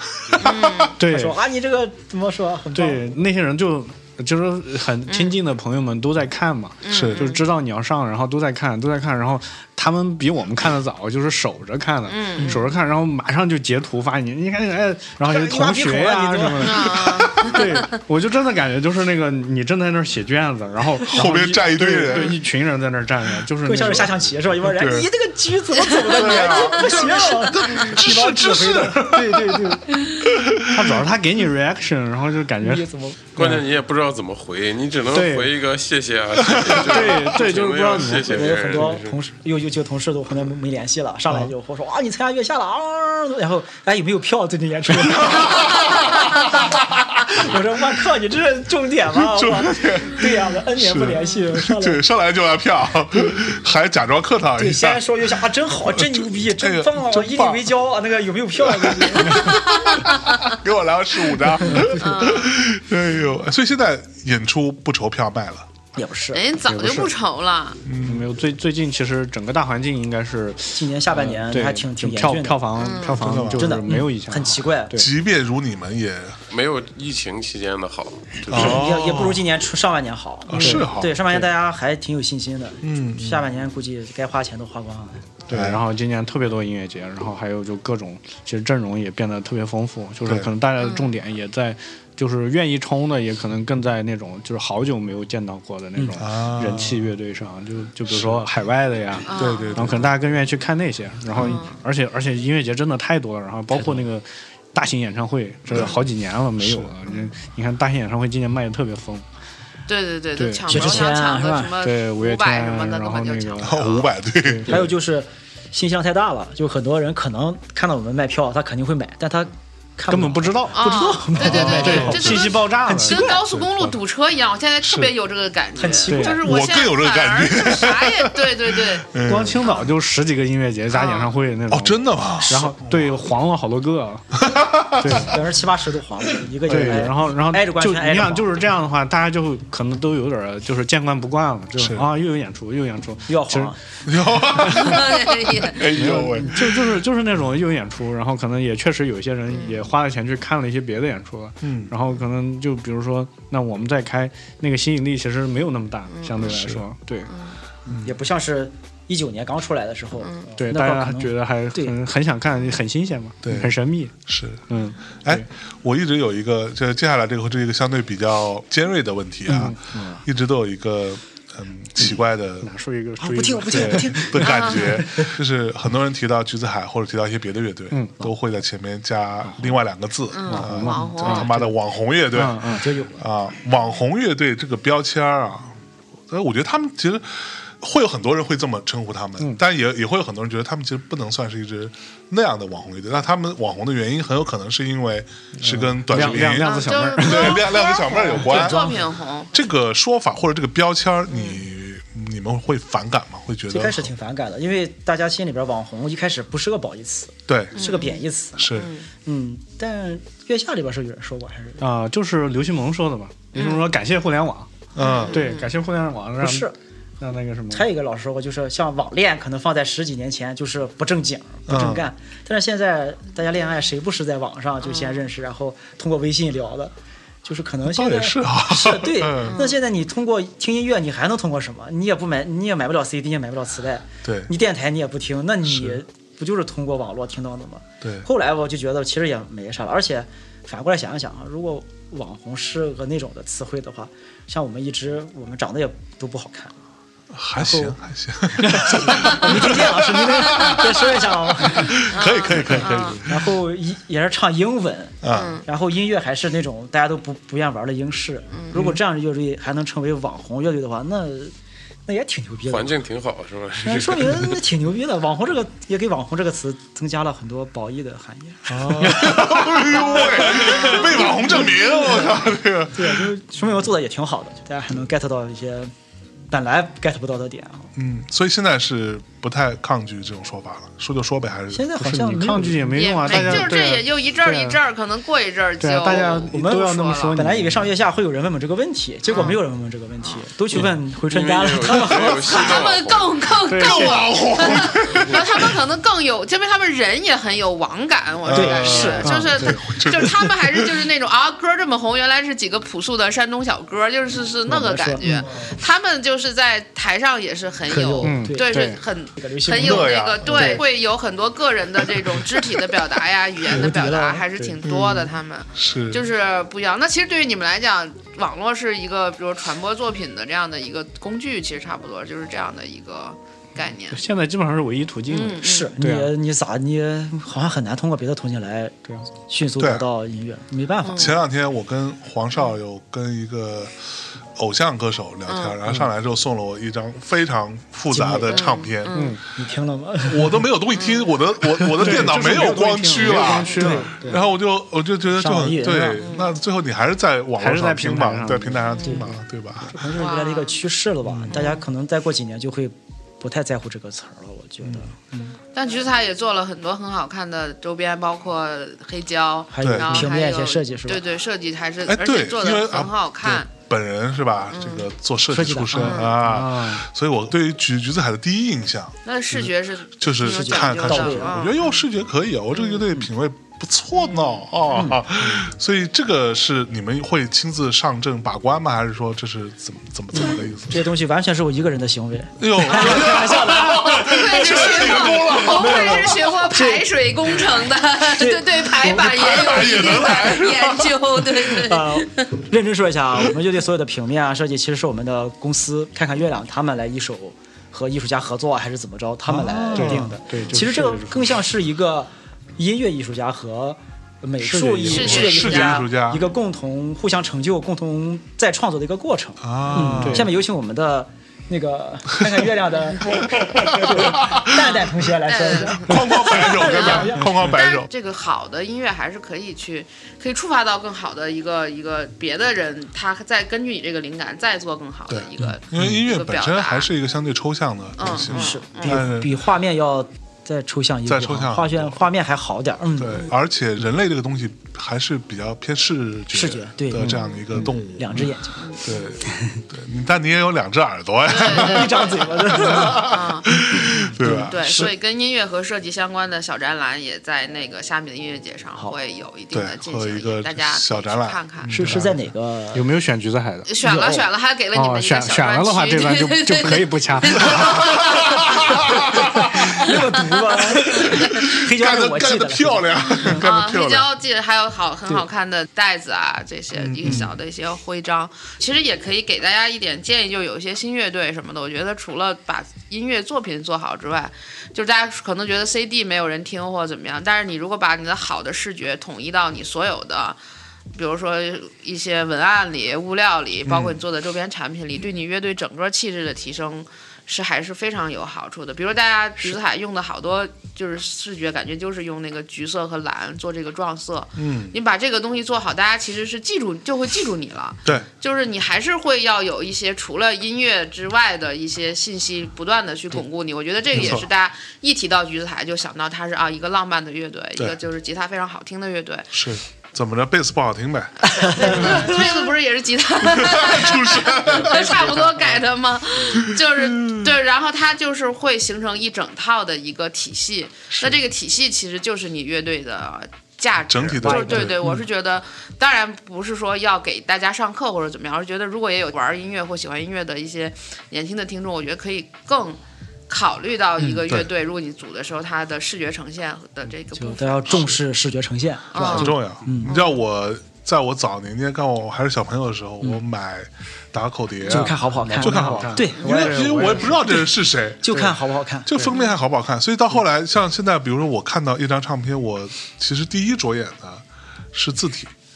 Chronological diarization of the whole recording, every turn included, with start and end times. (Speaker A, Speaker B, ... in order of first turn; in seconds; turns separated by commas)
Speaker A: 0.3-0.9, Speaker B: 0.4-1.0, Speaker C: 1.0-1.4, Speaker D: 1.1-3.1, Speaker C: 2.8-24.2, Speaker B: 5.1-5.4, Speaker B: 6.8-7.4, Speaker A: 6.9-7.3, Speaker B: 12.1-12.7, Speaker D: 15.2-16.9, Speaker B: 16.6-17.7, Speaker A: 17.0-17.5, Speaker A: 21.1-22.4, Speaker D: 23.6-29.8, Speaker A: 24.7-25.1, Speaker A: 26.1-30.7, Speaker C: 30.7-33.6, Speaker D: 32.6-33.4, Speaker E: 33.4-39.2, Speaker C: 35.1-35.5, Speaker A: 36.5-36.9, Speaker C: 36.7-39.0, Speaker D: 38.3-52.0, Speaker A: 45.1-45.9, Speaker A: 49.1-55.0, Speaker D: 54.6-59.7, Speaker A: 55.9-57.7, Speaker A: 58.6-65.7, Speaker B: 59.4-60.5, Speaker B: 61.9-62.5, Speaker D: 65.9-66.5, Speaker B: 66.3-67.8, Speaker C: 66.7-67.1, Speaker A: 67.8-68.3, Speaker C: 68.0-75.1, Speaker D: 70.7-72.8, Speaker B: 72.8-73.2, Speaker A: 73.1-74.0, Speaker D: 73.4-75.0, Speaker A: 75.0-76.4, Speaker E: 76.5-78.7, Speaker A: 78.5-79.4, Speaker D: 78.5-85.3, Speaker A: 80.5-81.1, Speaker C: 80.5-81.5, Speaker A: 82.8-83.5, Speaker C: 85.5-109.2, Speaker A: 85.5-85.8, Speaker B: 90.8-91.1, Speaker A: 96.2-97.1, Speaker A: 98.1-98.4, Speaker B: 99.3-100.0, Speaker A: 99.3-100.1, Speaker B: 101.3-101.8, Speaker A: 105.7-106.0, Speaker A: 106.6-106.9, Speaker B: 109.9-114.1, Speaker C: 110.4-111.1, Speaker D: 110.7-111.8, Speaker C: 111.8-114.9, Speaker A: 113.6-114.8, Speaker D: 114.7-123.5, Speaker C: 120.1-123.9, Speaker B: 120.7-129.9, Speaker A: 121.5-122.2, Speaker A: 124.9-125.1, Speaker D: 125.8-126.5, Speaker C: 126.1-126.4, Speaker A: 126.4-129.7, Speaker C: 129.2-134.4, Speaker B: 130.9-131.3, Speaker A: 131.7-133.2, Speaker A: 134.4-135.4, Speaker C: 135.0-135.4, Speaker D: 135.1-138.7, Speaker C: 136.7-143.8, Speaker A: 141.8-142.1, Speaker D: 143.3-143.8, Speaker A: 144.1-146.7, Speaker C: 144.6-145.0, Speaker B: 144.7-146.0, Speaker C: 145.9-157.3, Speaker B: 149.5-149.9, Speaker A: 151.6-151.9, Speaker B: 156.1-156.6, Speaker A: 156.5-156.8, Speaker B: 157.3-157.6, Speaker D: 157.9-162.0, Speaker B: 160.2-160.5, Speaker C: 160.6-164.2, Speaker A: 163.4-164.6, Speaker C: 164.7-165.5, Speaker A: 165.2-172.7, Speaker C: 169.5-169.8, Speaker D: 169.8-170.2, Speaker C: 172.6-174.4, Speaker D: 173.2-175.3, Speaker A: 173.7-185.8, Speaker B: 174.4-175.0, Speaker C: 177.9-178.2, Speaker C: 179.5-179.8, Speaker B: 180.3-181.6, Speaker C: 180.4-181.7, Speaker C: 182.3-182.9, Speaker D: 182.7-183.2, Speaker A: 186.3-199.0, Speaker C: 195.6-197.7, Speaker B: 196.4-199.5, Speaker D: 198.3-199.0, Speaker A: 199.5-204.1, Speaker B: 201.3-201.6, Speaker D: 203.7-211.8, Speaker A: 207.5-207.8, Speaker B: 207.8-208.2, Speaker A: 208.6-208.9, Speaker B: 208.8-209.1, Speaker C: 211.8-214.7, Speaker B: 213.5-213.9, Speaker A: 214.9-215.4, Speaker B: 215.0-215.7, Speaker C: 215.3-217.9, Speaker D: 216.4-216.8, Speaker D: 217.7-246.8, Speaker A: 221.7-222.1, Speaker B: 224.9-225.2, Speaker A: 227.9-229.6, Speaker B: 229.4-229.7, Speaker A: 234.2-234.5, Speaker A: 235.7-236.0, Speaker A: 238.0-238.3, Speaker A: 247.3-253.5, Speaker D: 247.6-248.0, Speaker D: 248.6-261.6, Speaker B: 252.1-253.2, Speaker A: 255.2-255.6, Speaker B: 255.3-255.7, Speaker B: 258.5-258.8, Speaker D: 262.1-263.0, Speaker E: 262.7-264.6, Speaker D: 263.8-272.4, Speaker A: 268.7-273.2, Speaker D: 272.9-275.9, Speaker D: 276.5-277.9, Speaker A: 278.0-281.9, Speaker D: 281.7-283.0, Speaker C: 282.0-284.8, Speaker B: 282.9-287.4, Speaker C: 285.8-287.9, Speaker D: 286.4-292.9, Speaker B: 289.3-289.6, Speaker E: 291.3-293.5, Speaker A: 292.1-292.4, Speaker B: 292.4-324.2, Speaker C: 293.7-294.2, Speaker A: 293.8-295.8, Speaker E: 295.1-295.4, Speaker A: 298.4-301.1, Speaker D: 298.5-299.3, Speaker C: 299.2-299.9, Speaker D: 304.7-305.5, Speaker D: 307.9-308.7, Speaker C: 308.2-309.0, Speaker D: 309.4-310.2, Speaker A: 309.8-310.8, Speaker C: 310.5-310.8, Speaker D: 313.7-314.5, Speaker A: 314.8-316.2, Speaker C: 324.1-326.3, Speaker B: 325.3-325.9, Speaker D: 325.6-331.4, Speaker A: 329.8-330.1, Speaker B: 331.0-331.4, Speaker A: 331.1-334.0, Speaker A: 334.6-339.2, Speaker B: 335.5-335.8, Speaker D: 338.1-338.7, Speaker B: 338.5-339.4, Speaker C: 339.1-339.4, Speaker D: 339.6-340.7, Speaker A: 340.3-350.0, Speaker B: 340.9-341.3, Speaker D: 341.7-344.4, Speaker C: 342.0-344.4, Speaker D: 345.3-346.3, Speaker B: 346.2-346.5, Speaker C: 347.6-348.9, Speaker B: 348.9-349.3, Speaker D: 349.0-355.6, Speaker B: 350.2-350.8, Speaker A: 351.3-351.5, Speaker B: 351.5-351.8, Speaker B: 355.7-363.7, Speaker D: 359.7-361.2, Speaker A: 359.8-360.2, Speaker A: 362.1-369.2, Speaker B: 364.7-365.1, Speaker D: 365.5-366.4, Speaker B: 366.0-366.4, Speaker C: 366.1-367.1, Speaker B: 369.2-372.0, Speaker A: 370.2-381.0, Speaker D: 370.4-371.6, Speaker B: 372.7-373.1, Speaker B: 374.3-374.6, Speaker D: 374.9-375.3, Speaker D: 380.3-387.1, Speaker A: 382.6-386.4, Speaker B: 383.1-392.5, Speaker D: 388.2-389.5, Speaker A: 389.0-391.6, Speaker D: 391.7-417.7, Speaker A: 399.5-400.3, Speaker C: 399.9-401.6, Speaker C: 404.6-405.4, Speaker B: 405.1-406.1, Speaker A: 405.1-406.4, Speaker A: 409.6-410.5, Speaker C: 410.1-410.6, Speaker A: 413.5-414.8, Speaker B: 415.5-427.1, Speaker A: 415.9-418.1, Speaker A: 425.3-429.6, Speaker B: 428.2-429.2, Speaker D: 428.5-433.5, Speaker A: 431.3-432.2, Speaker A: 433.2-445.1, Speaker D: 436.5-439.8, Speaker C: 437.1-437.4, Speaker B: 437.4-437.9, Speaker B: 441.5-443.7, Speaker D: 441.6-443.4, Speaker D: 444.3-445.1, Speaker B: 444.5-452.0, Speaker A: 449.7-452.3, Speaker D: 451.9-453.1, Speaker C: 452.0-452.3, Speaker C: 452.9-453.9, Speaker B: 453.9-459.2, Speaker D: 454.0-454.5, Speaker C: 454.9-458.0, Speaker A: 457.7-460.1, Speaker B: 459.9-461.6, Speaker D: 460.0-463.6, Speaker A: 460.8-464.3, Speaker B: 463.4-480.6, Speaker A: 467.0-467.5, Speaker B: 481.1-509.5, Speaker A: 483.9-484.2, Speaker A: 494.6-495.0, Speaker A: 504.1-504.5, Speaker A: 509.5-512.5, Speaker B: 511.5-538.1, Speaker D: 511.6-512.3, Speaker A: 513.5-515.5, Speaker D: 514.7-515.4, Speaker A: 516.5-517.5, Speaker A: 524.1-525.0, Speaker D: 524.4-525.1, Speaker D: 537.4-540.1, Speaker B: 539.1-540.4, Speaker A: 539.2-548.3, Speaker D: 544.8-547.7, Speaker C: 544.9-547.6, Speaker D: 548.2-549.1, Speaker C: 548.3-548.6, Speaker A: 549.1-555.5, Speaker B: 549.3-549.6